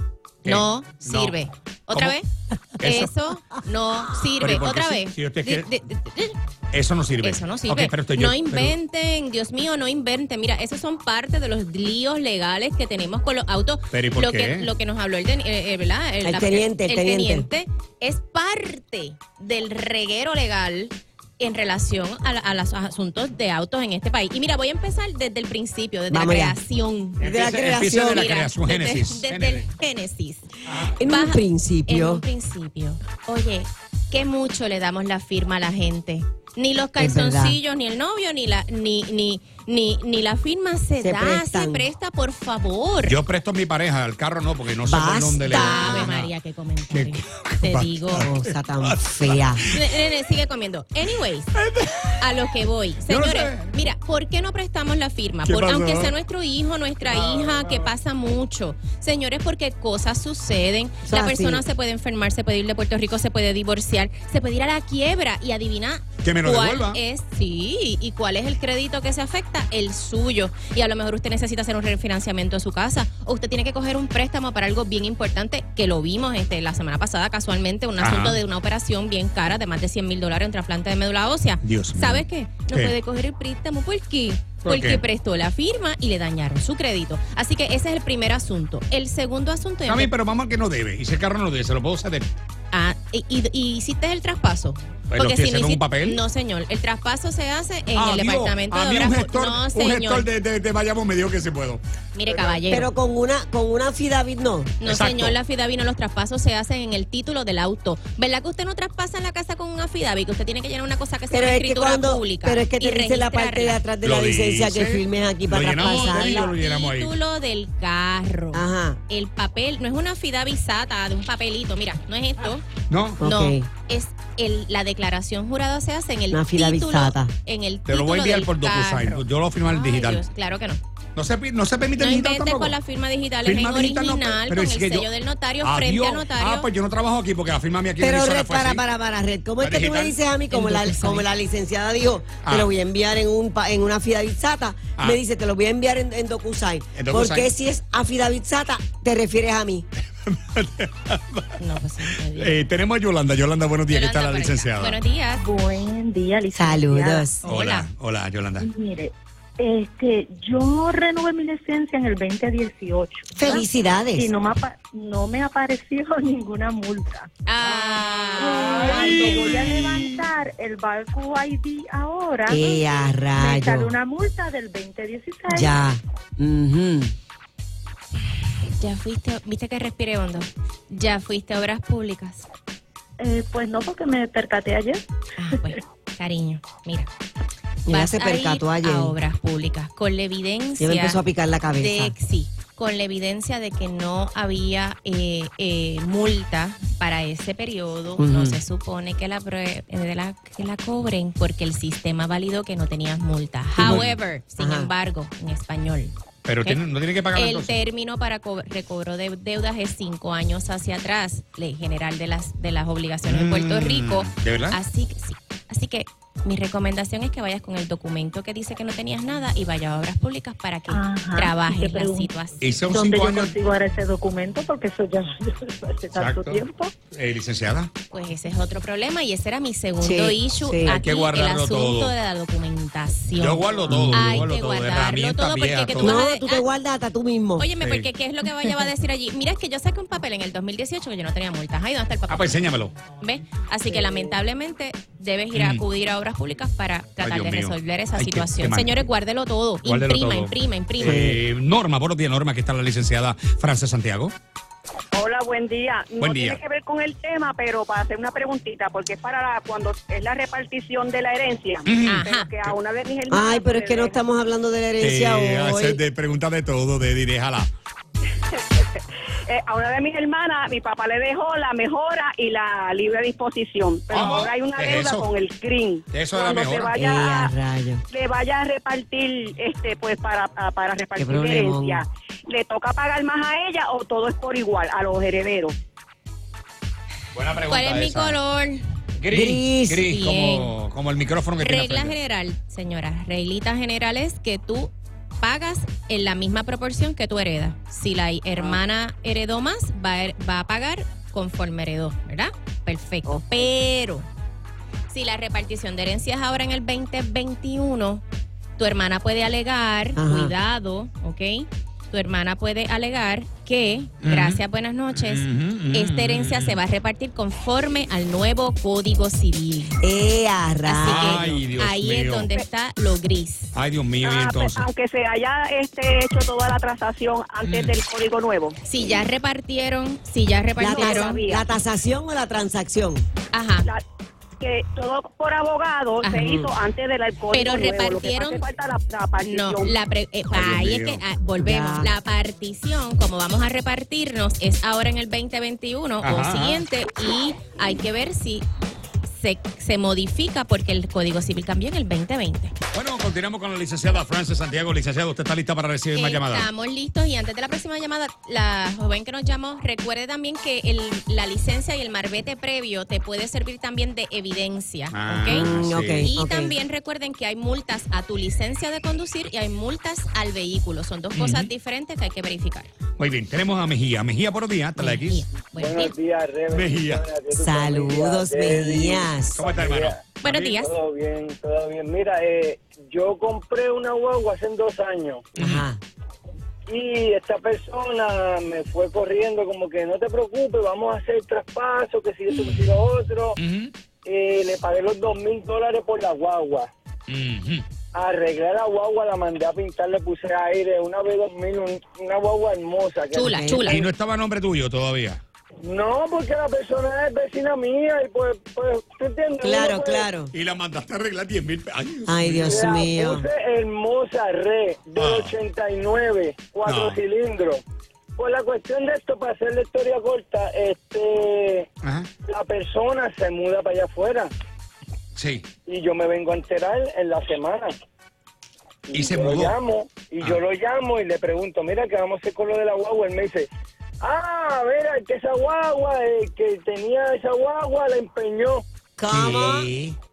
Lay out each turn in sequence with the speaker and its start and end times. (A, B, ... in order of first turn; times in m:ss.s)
0:00.4-0:01.4 A
0:00.4-0:02.2 B
0:01.9-0:02.2 A
0:02.8-0:03.1 A
0:02.8-0:06.4 B
0:04.4-0:05.7 A
0:06.7-0:08.8 A
0:07.2-0:27.2 B
0:13.9-0:14.7 A
0:16.2-0:17.5 C
0:26.1-0:26.6 C
0:27.2-0:28.3 C
0:27.2-0:29.7 A
0:27.9-0:30.5 B
0:30.7-0:31.0 A
0:31.0-0:32.2 C
0:31.0-0:43.2 B
0:37.0-0:37.6 C
0:41.0-0:41.9 C
0:43.0-0:46.3 A
0:44.8-0:46.1 C
0:45.4-0:48.3 B
0:46.9-0:49.8 A
0:48.1-0:49.6 C
0:49.7-0:51.5 B
0:51.6-0:52.2 A
0:52.2-1:30.1 B
0:53.1-0:53.8 A
0:55.4-0:56.1 A
0:57.1-0:57.8 D
1:01.0-1:01.6 C
1:06.2-1:07.0 A
1:18.0-1:18.4 A
1:21.6-1:22.9 A
1:24.6-1:25.0 A
1:29.9-1:32.3 A
1:32.7-1:40.3 B
1:35.1-1:36.2 A
1:37.9-1:41.8 A
1:42.1-1:42.9 B
1:42.6-1:44.7 C
1:44.8-1:53.8 B
1:44.8-1:45.4 A
1:51.3-1:56.5 C
1:54.0-1:57.1 A
1:55.8-2:02.7 B
1:58.5-1:59.0 C
2:02.9-2:03.2 A
2:03.2-2:03.7 C
2:03.2-2:10.8 B
2:06.3-2:07.3 C
2:07.8-2:10.2 A
2:11.2-2:12.8 A
2:12.0-2:16.7 B
2:13.4-2:15.1 A
2:15.6-2:18.8 A
2:18.0-2:29.8 C
2:19.6-2:20.2 A
2:20.5-2:21.2 B
2:26.9-2:27.5 A
2:30.2-2:31.6 A
2:31.6-2:32.6 B
2:32.3-2:35.0 A
2:33.9-2:35.4 B
2:35.4-2:37.3 E
2:36.5-2:37.4 C
2:37.4-2:37.9 B
2:37.5-2:38.7 A
2:38.6-2:47.3 E
2:43.3-2:44.3 C
2:47.5-2:49.5 B
2:47.7-2:50.2 A
2:48.4-2:55.8 E
2:52.5-2:53.9 C
2:55.5-2:57.1 C
2:58.8-3:02.5 B
3:03.2-3:05.0 E
3:05.4-3:07.1 B
3:07.9-3:09.2 C
3:07.9-3:11.2 B
3:10.8-3:12.1 C
3:11.7-3:26.8 B
3:18.2-3:18.6 C
3:23.8-3:24.0 C
3:23.8-3:24.2 A
3:24.6-3:24.9 C
3:26.4-3:27.7 A
3:27.3-3:42.7 B
3:33.2-3:34.8 A
3:40.9-3:42.3 E
3:42.6-3:43.5 A
3:42.9-3:46.9 E
3:46.2-3:46.6 A
3:47.1-3:47.9 A
3:48.1-3:56.6 B
3:50.0-3:51.0 C
3:50.9-3:52.1 A
3:53.3-3:56.1 A
3:53.9-3:54.4 C
3:56.0-3:57.7 C
3:57.6-4:11.3 B
3:57.8-3:58.1 A
4:02.3-4:02.9 A
4:03.9-4:04.4 C
4:05.5-4:05.8 A
4:07.2-4:09.0 A
4:09.8-4:14.3 A
4:11.0-4:11.4 C
4:15.1-4:24.2 F
4:16.2-4:16.6 A
4:21.9-4:22.8 A
4:22.0-4:22.5 B
4:23.3-4:26.0 C
4:25.0-4:27.7 A
4:28.5-4:37.5 F
4:34.1-4:35.3 A
4:36.1-4:37.0 A
4:37.0-4:38.0 C
4:38.1-4:45.8 F
4:41.2-4:42.0 C
4:47.3-4:48.4 A
4:47.7-4:48.8 B
4:49.2-4:52.2 A
4:49.3-4:50.1 C
4:50.0-4:50.7 B
4:51.6-5:04.3 B
5:03.2-5:03.7 C
5:05.1-5:08.2 B
5:08.8-5:19.9 B
5:10.2-5:10.5 C
5:14.2-5:16.8 A
5:20.0-5:21.4 C
5:20.8-5:23.7 B
5:21.1-5:22.5 A
5:23.7-5:24.9 A
5:24.2-5:29.2 F
5:27.6-5:28.0 A
5:28.8-5:31.4 B
5:30.8-5:33.2 C
5:30.8-5:31.6 F
5:33.5-5:33.9 B
5:34.6-5:39.9 F
5:36.2-5:36.5 B
5:36.4-5:36.7 A
5:37.5-5:38.6 B
5:39.4-5:48.6 B
5:40.5-5:41.2 A
5:41.6-5:42.1 C
5:46.2-5:46.8 A
5:49.2-5:52.7 B
5:52.9-5:56.7 A
5:56.1-6:05.7 B
6:05.1-6:06.2 A
6:05.5-6:06.8 C
6:06.2-6:12.9 B
6:11.3-6:11.7 A
6:13.2-6:15.5 A
6:15.0-6:16.1 B
6:15.7-6:25.4 D
6:16.7-6:17.2 A
6:17.5-6:19.6 C
6:19.6-6:20.7 A
6:20.4-6:20.9 B
6:25.6-6:26.0 C
6:25.6-6:25.8 A
6:26.9-6:33.6 D
6:33.6-6:33.9 A
6:34.2-6:36.9 D
6:37.3-6:37.8 A
6:38.1-6:43.9 D
6:43.3-6:44.0 C
6:43.3-6:44.1 B
6:43.9-6:45.4 A
6:45.8-6:50.3 D
6:49.6-6:50.5 C
6:50.5-6:52.9 A
6:52.2-6:53.4 C
6:52.6-6:57.8 D
6:55.1-6:55.6 A
6:56.8-6:57.2 A
6:58.4-7:01.9 D
7:02.0-7:02.3 A
7:02.5-7:04.5 D
7:05.3-7:05.7 A
7:05.8-7:07.9 D
7:09.1-7:13.7 D
7:09.1-7:09.8 A
7:14.2-7:18.8 D
7:19.2-7:19.9 C
7:19.3-7:20.2 A